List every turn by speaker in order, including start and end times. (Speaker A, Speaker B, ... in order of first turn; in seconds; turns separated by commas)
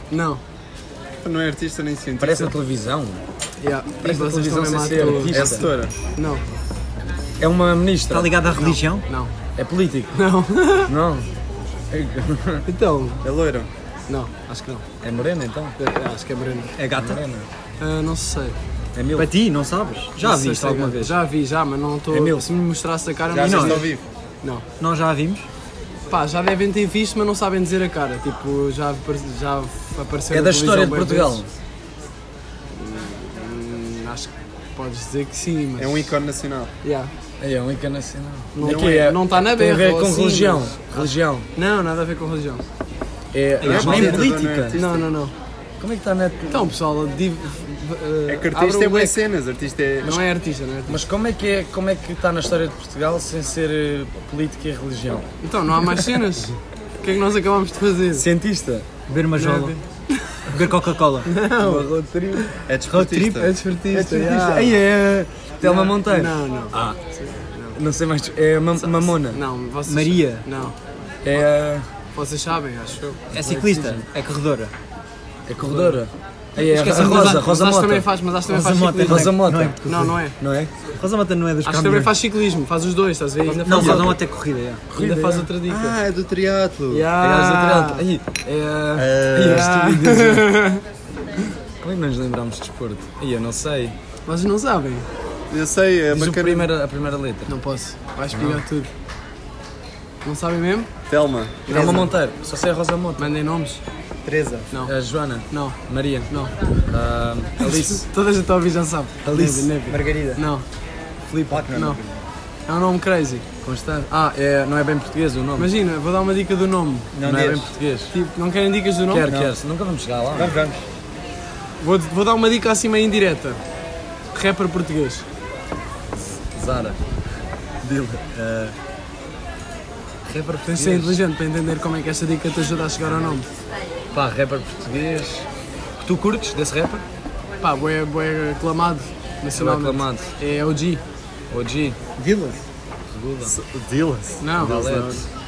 Speaker A: 0.1-0.4, Speaker B: 1.2-2.5, Speaker C: 2.2-3.2, Speaker A: 3.6-6.4, Speaker C: 4.0-5.7, Speaker B: 5.3-5.9, Speaker C: 7.4-8.3, Speaker D: 8.1-9.0, Speaker A: 8.5-9.3, Speaker C: 9.6-10.1, Speaker A: 10.1-10.9, Speaker C: 10.8-11.3, Speaker C: 11.9-12.6, Speaker A: 12.7-13.2, Speaker B: 13.2-13.7, Speaker A: 14.1-14.8, Speaker C: 14.5-15.8, Speaker A: 15.8-16.7, Speaker D: 16.8-17.2, Speaker C: 16.9-17.5, Speaker A: 17.8-18.6, Speaker C: 18.9-19.3, Speaker D: 19.1-20.2, Speaker C: 20.2-21.2, Speaker A: 20.2-23.9, Speaker C: 22.1-22.5, Speaker B: 23.3-24.0, Speaker D: 23.4-23.9, Speaker D: 24.8-25.5, Speaker A: 26.1-31.4, Speaker C: 30.3-31.5, Speaker A: 32.7-36.1, Speaker B: 35.8-36.7, Speaker A: 36.8-37.1, Speaker C: 37.4-41.5, Speaker A: 38.5-42.6, Speaker C: 43.3-44.8, Speaker D: 43.6-44.4, Speaker B: 43.6-45.0, Speaker A: 44.7-45.3, Speaker C: 45.8-46.7, Speaker A: 46.5-49.2, Speaker B: 48.3-50.2, Speaker A: 50.0-51.0, Speaker C: 50.9-55.2, Speaker A: 55.4-58.2, Speaker C: 55.8-56.1, Speaker C: 58.1-58.9, Speaker D: 59.1-59.8, Speaker A: 59.4-60.5, Speaker D: 60.4-61.3, Speaker A: 61.2-62.5, Speaker C: 61.6-62.5, Speaker B: 62.7-63.5, Speaker D: 62.9-64.1, Speaker A: 63.4-64.8, Speaker C: 63.9-66.4, Speaker A: 65.6-67.8, Speaker C: 67.7-69.4, Speaker A: 68.8-70.8, Speaker D: 69.8-70.4, Speaker C: 71.2-71.9, Speaker A: 72.1-73.2, Speaker D: 73.3-74.7, Speaker C: 73.4-74.0, Speaker C: 75.5-78.1, Speaker A: 75.6-76.0, Speaker D: 76.6-77.5, Speaker A: 76.6-80.4, Speaker D: 78.5-80.2, Speaker C: 79.0-79.8, Speaker C: 80.4-80.7, Speaker D: 80.9-82.1, Speaker A: 81.6-84.2, Speaker D: 83.5-84.8, Speaker C: 83.7-84.1, Speaker C: 84.9-85.5, Speaker A: 84.9-86.0, Speaker B: 85.7-87.1, Speaker A: 86.9-88.0, Speaker C: 87.2-90.6, Speaker B: 88.9-89.7, Speaker A: 89.4-90.8, Speaker C: 91.8-94.0, Speaker A: 94.2-95.1, Speaker B: 95.5-96.7, Speaker C: 96.1-97.5, Speaker A: 97.5-98.9, Speaker C: 98.3-98.6, Speaker A: 100.2-100.9, Speaker B: 101.1-101.9, Speaker C: 101.7-103.3, Speaker A: 101.7-102.1, Speaker A: 103.2-103.8, Speaker B: 104.2-104.7, Speaker C: 104.8-106.3, Speaker A: 105.5-105.8, Speaker C: 106.9-108.0, Speaker A: 107.6-110.6, Speaker C: 109.2-109.7, Speaker D: 109.9-110.4, Speaker C: 111.3-111.7, Speaker D: 111.5-112.2, Speaker A: 111.7-112.0, Speaker A: 112.7-113.4, Speaker C: 113.6-115.7, Speaker A: 115.6-117.1, Speaker D: 117.1-117.7, Speaker C: 117.2-118.1, Speaker A: 118.1-119.3, Speaker C: 119.1-120.5, Speaker D: 119.2-119.5, Speaker D: 120.3-120.8, Speaker A: 121.8-123.6, Speaker A: 124.3-125.2, Speaker C: 126.2-127.0, Speaker C: 127.8-128.7, Speaker C: 130.2-131.2, Speaker A: 130.7-133.4, Speaker C: 134.1-135.4, Speaker C: 136.0-137.0, Speaker A: 137.6-141.0, Speaker C: 139.5-140.3, Speaker C: 141.5-142.0, Speaker D: 142.2-142.6, Speaker C: 143.1-143.5, Speaker B: 143.4-145.2, Speaker A: 144.4-145.0, Speaker C: 144.6-145.2